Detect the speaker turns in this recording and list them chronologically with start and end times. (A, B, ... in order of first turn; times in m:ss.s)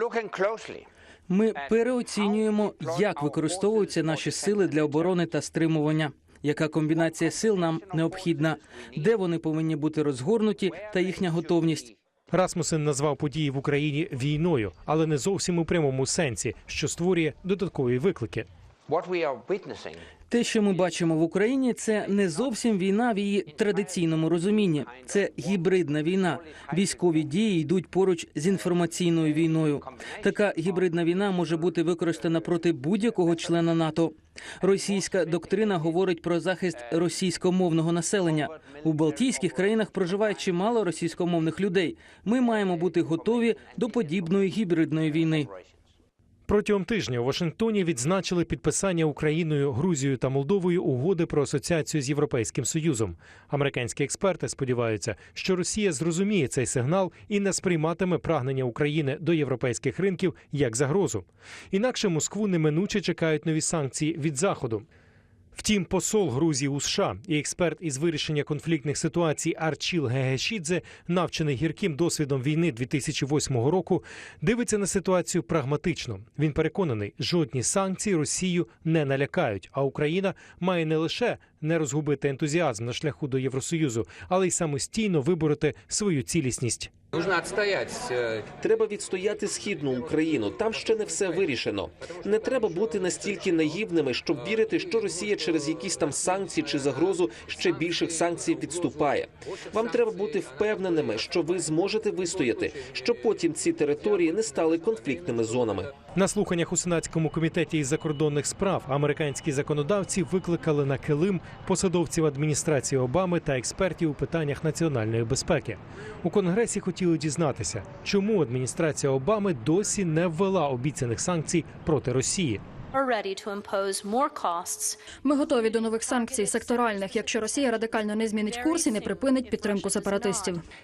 0:01.3-0:11.9 A
0:12.3-0:18.5 B
0:20.3-0:45.5 A
0:46.5-1:04.9 B
1:05.6-1:26.9 B
1:28.6-1:45.9 C
1:46.2-2:02.6 B
2:02.9-2:05.0 D
2:05.2-2:10.6 E
2:05.5-2:10.6 D